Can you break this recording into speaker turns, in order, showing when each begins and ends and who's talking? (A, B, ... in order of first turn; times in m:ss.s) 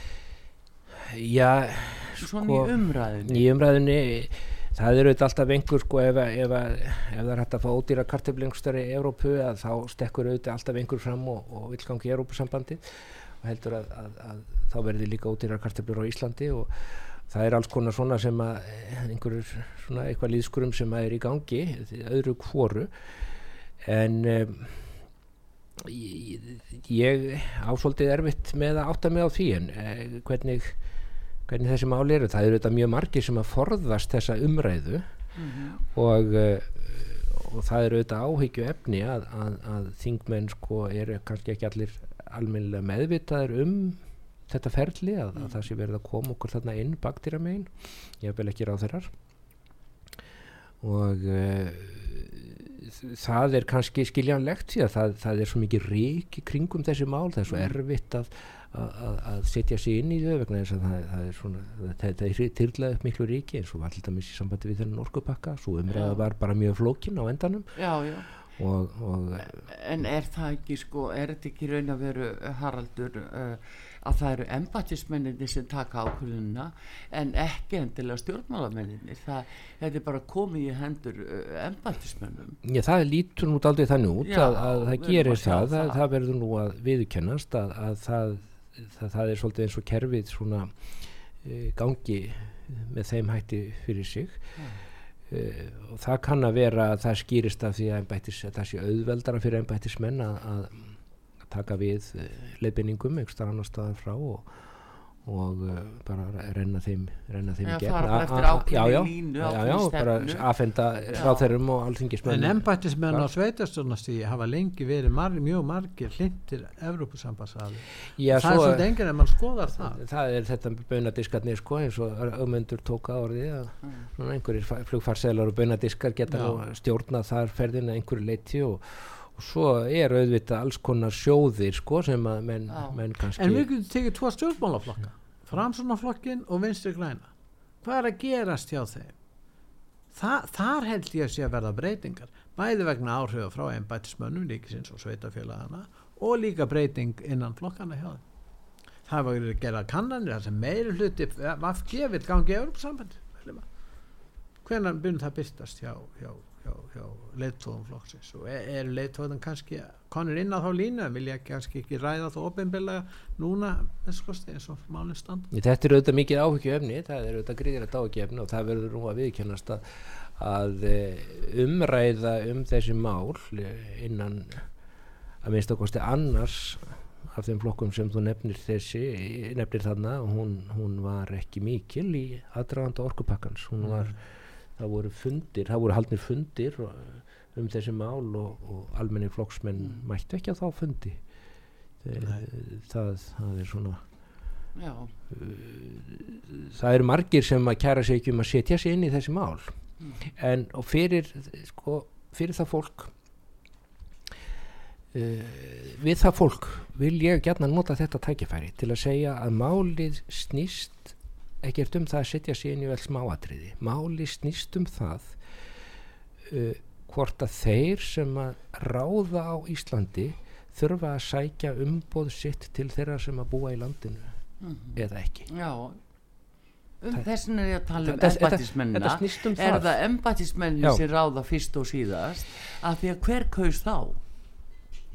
0:01.0-0:22.9 A
0:02.2-0:03.5 B
0:23.8-0:24.9 A
0:25.8-0:30.8 A
0:31.5-0:35.0 A
0:35.4-0:35.8 B
0:35.9-0:49.1 A
0:50.8-1:07.7 A
0:57.5-0:57.8 B
1:05.9-1:06.3 B
1:07.8-1:08.3 B
1:08.6-1:09.6 A
1:09.4-1:22.6 B
1:22.6-1:34.6 A
1:24.2-1:26.0 B
1:34.6-1:34.8 B
1:35.3-1:44.7 A
1:45.2-1:53.3 A
1:47.6-1:51.5 B
1:52.2-2:00.0 C
1:58.2-1:58.9 A
1:59.8-2:13.6 A
2:03.8-2:04.1 B
2:06.3-2:06.6 C
2:12.7-2:13.0 B
2:13.4-2:17.3 C
2:17.8-2:19.1 C
2:20.1-2:28.2 C
2:29.0-2:33.7 C
2:34.6-2:45.5 C
2:45.5-2:54.6 A
2:55.4-3:11.2 A
3:03.8-3:04.2 C
3:09.8-3:10.0 B
3:12.0-3:14.0 A
3:12.1-3:12.4 C
3:14.8-3:15.1 B
3:15.3-3:19.7 A
3:20.0-3:20.3 B
3:20.4-3:23.1 A
3:25.1-3:35.4 A
3:36.4-3:44.4 A
3:44.6-3:46.0 B
3:45.0-3:45.5 A
3:47.0-3:54.2 B
3:48.0-3:50.0 A